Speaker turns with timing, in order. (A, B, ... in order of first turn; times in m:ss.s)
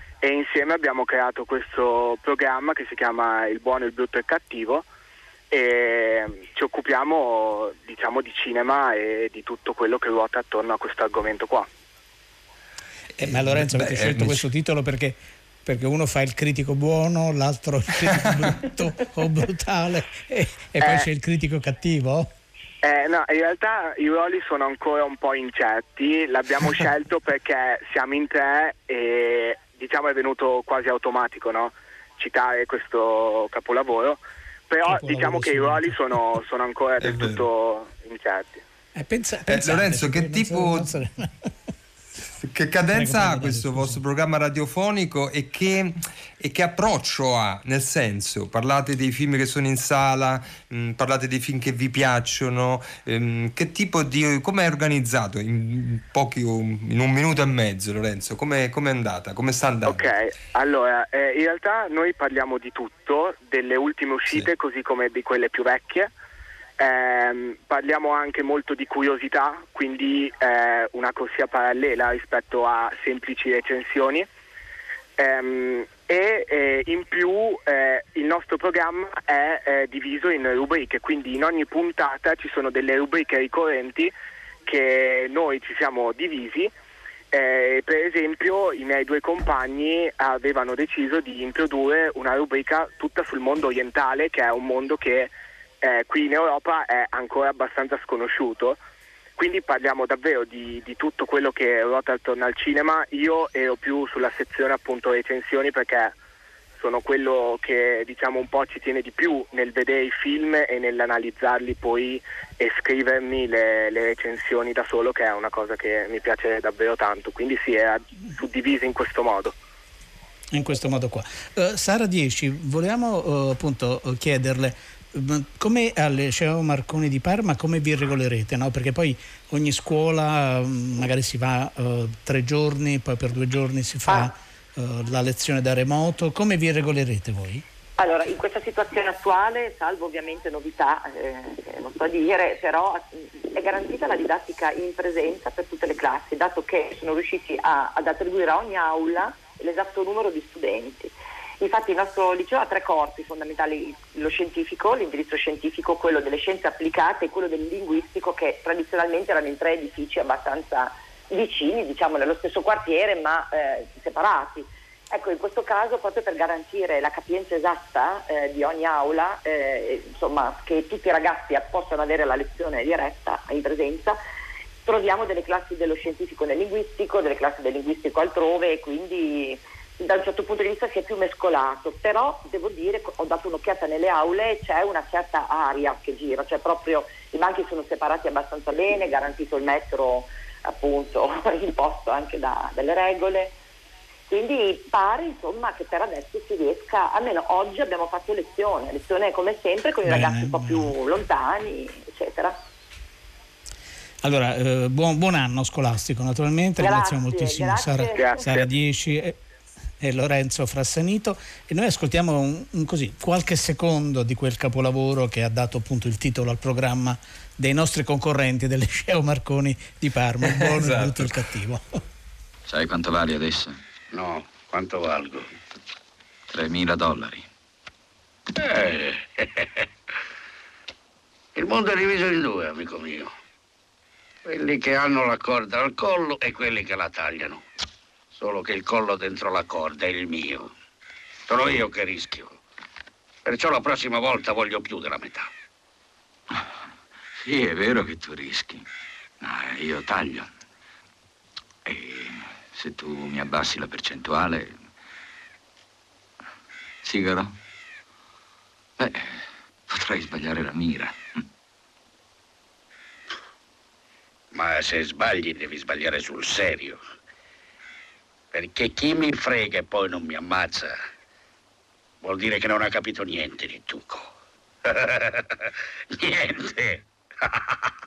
0:00.2-0:04.9 A
0:05.5-0:11.7 A
0:13.2-0:14.4 B
0:13.2-0:22.3 C
0:20.8-0:21.1 A
0:22.8-0:38.6 A
0:34.8-0:36.2 C
0:37.0-0:37.4 B
0:39.0-0:41.5 C
0:39.5-0:40.9 B
0:42.4-1:00.1 B
0:42.9-0:44.0 C
0:59.8-1:06.1 A
1:06.8-1:14.3 A
1:15.2-1:24.1 A
1:24.6-1:26.7 A
1:27.3-1:35.3 A
1:35.8-1:38.8 A
1:39.4-1:46.2 A
1:46.8-1:59.6 A
2:00.5-2:17.6 C
2:14.1-2:14.3 D
2:18.0-2:54.2 D
2:54.8-3:13.6 D
3:14.3-3:22.6 D
3:20.0-3:20.9 C
3:24.2-3:29.4 C
3:26.8-3:28.5 D
3:28.2-3:28.7 A
3:30.0-3:42.0 C
3:40.6-3:41.3 B
3:42.7-3:43.8 E
3:44.1-3:45.5 F
3:46.5-3:47.5 E
3:48.6-3:49.8 F
3:51.6-3:53.3 F
3:54.5-3:57.6 F
3:58.4-4:00.7 F
4:01.5-4:02.6 F
4:03.5-4:05.5 F
4:07.4-4:08.9 E
4:09.4-4:10.5 E
4:11.9-4:14.8 E
4:17.0-4:17.5 E
4:19.0-4:21.4 E
4:24.5-4:27.0 F
4:28.5-4:31.0 F
4:32.2-4:34.3 F
4:34.9-4:37.9 F